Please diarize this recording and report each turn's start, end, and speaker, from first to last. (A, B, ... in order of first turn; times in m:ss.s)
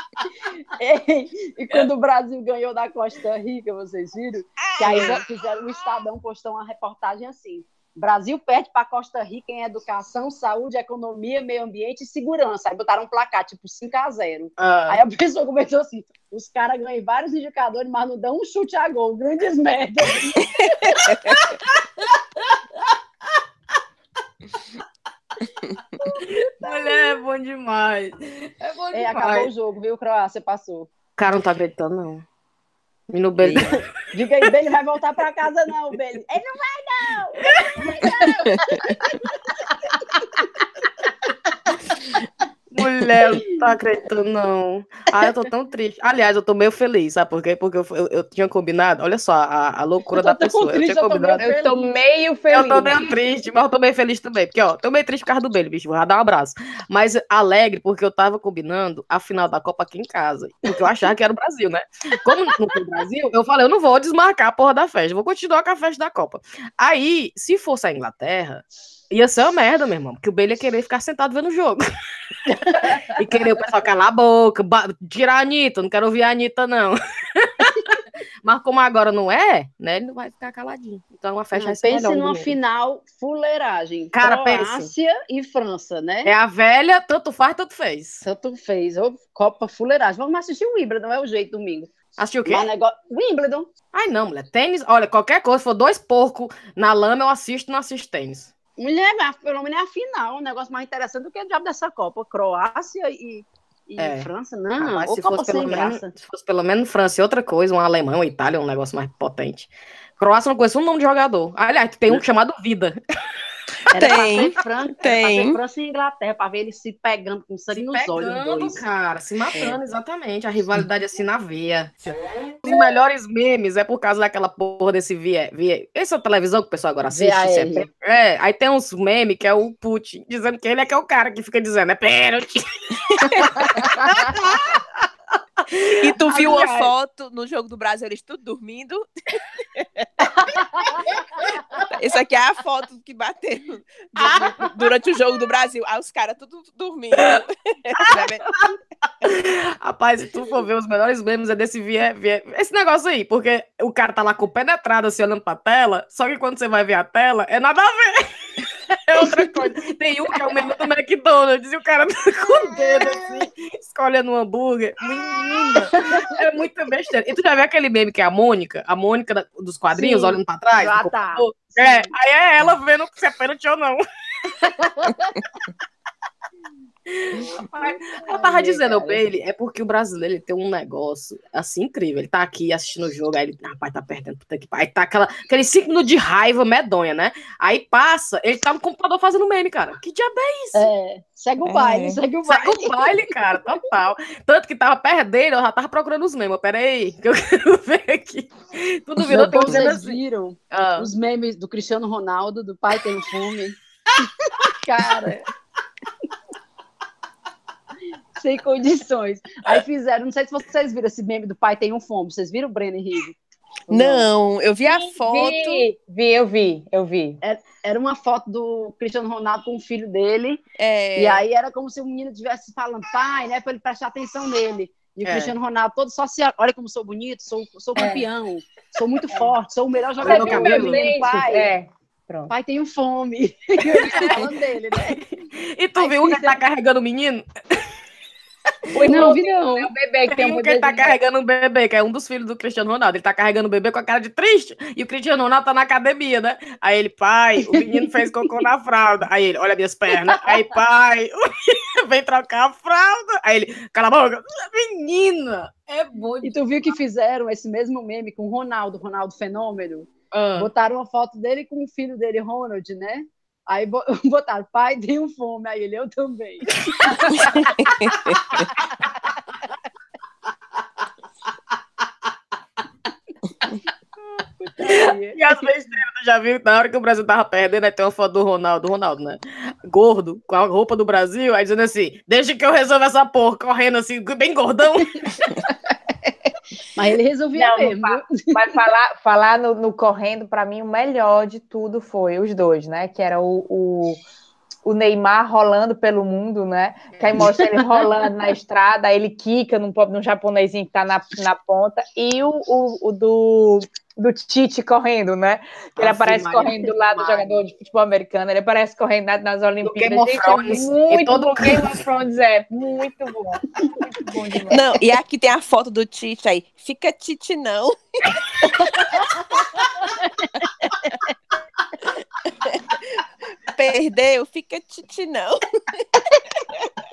0:00.8-0:21.3 A
0:04.6-0:05.2 B
0:04.8-0:05.2 C
0:14.6-0:15.0 C
0:26.1-0:29.5 C
0:26.6-0:27.2 A
0:28.9-0:30.9 A
0:31.2-0:32.2 C
0:33.1-0:33.8 C
0:33.4-0:33.8 B
0:34.1-0:39.2 A
0:37.4-0:38.4 C
0:40.1-0:40.3 A
0:42.7-0:51.4 C
0:43.2-0:43.6 A
0:50.1-0:51.8 A
0:51.4-0:53.0 D
0:52.5-1:11.8 C
1:12.5-1:13.0 A
1:12.7-1:17.9 C
1:18.4-1:22.5 C
1:21.5-1:26.3 A
1:24.1-1:24.9 C
1:26.2-1:28.2 C
1:28.2-1:31.9 A
1:32.2-1:32.7 C
1:32.4-1:33.7 A
1:33.9-1:38.5 C
1:38.8-1:46.1 A
1:44.0-1:53.0 C
1:53.9-1:58.8 A
1:53.9-1:55.6 B
1:57.7-2:01.9 C
2:02.6-2:14.9 C
2:07.1-2:07.9 A
2:13.6-2:14.3 A
2:15.6-2:16.9 C
2:16.0-2:19.0 B
2:19.8-2:20.1 B
2:20.3-2:21.8 A
2:21.9-2:28.5 B
2:24.2-2:24.6 C
2:27.1-2:27.4 C
2:27.9-2:28.6 C
2:28.1-2:28.5 A
2:29.2-2:54.0 C
2:45.8-2:46.3 A
2:49.9-2:52.1 A
2:54.6-2:55.3 A
2:57.1-3:10.9 C
2:57.3-2:59.2 A
3:10.7-3:12.9 A
3:11.6-3:12.2 B
3:12.4-3:20.2 C
3:19.2-3:25.4 A
3:19.6-3:19.9 B
3:20.7-3:21.1 C
3:28.4-3:33.4 A
3:33.9-3:34.3 A
3:33.9-3:35.8 B
3:34.9-3:37.4 D
3:37.4-3:40.6 A
3:40.8-3:41.4 B
3:41.2-3:51.7 A
3:45.2-3:45.5 C
3:50.2-3:51.0 C
3:50.2-3:52.5 D
3:52.5-3:55.2 A
3:54.0-3:55.2 C
3:54.0-3:54.3 D
3:55.7-3:57.4 C
3:56.0-3:56.6 A
3:58.9-4:01.1 D
3:59.0-3:59.9 A
4:00.3-4:16.5 C
4:07.7-4:08.1 A
4:10.3-4:10.6 A
4:16.4-4:27.7 A
4:20.3-4:20.7 C
4:26.9-4:27.5 C
4:27.8-4:28.4 B
4:28.8-4:29.1 A
4:34.6-4:35.4 A
4:34.8-4:45.5 C
4:46.9-4:48.6 A
4:47.6-4:54.2 D
4:54.8-5:14.8 D
4:57.2-4:57.5 C
5:06.0-5:06.4 C
5:06.0-5:07.6 A
5:09.8-5:12.0 C
5:14.7-5:18.6 B
5:19.0-5:19.4 A
5:20.1-5:20.9 A
5:22.6-5:26.9 B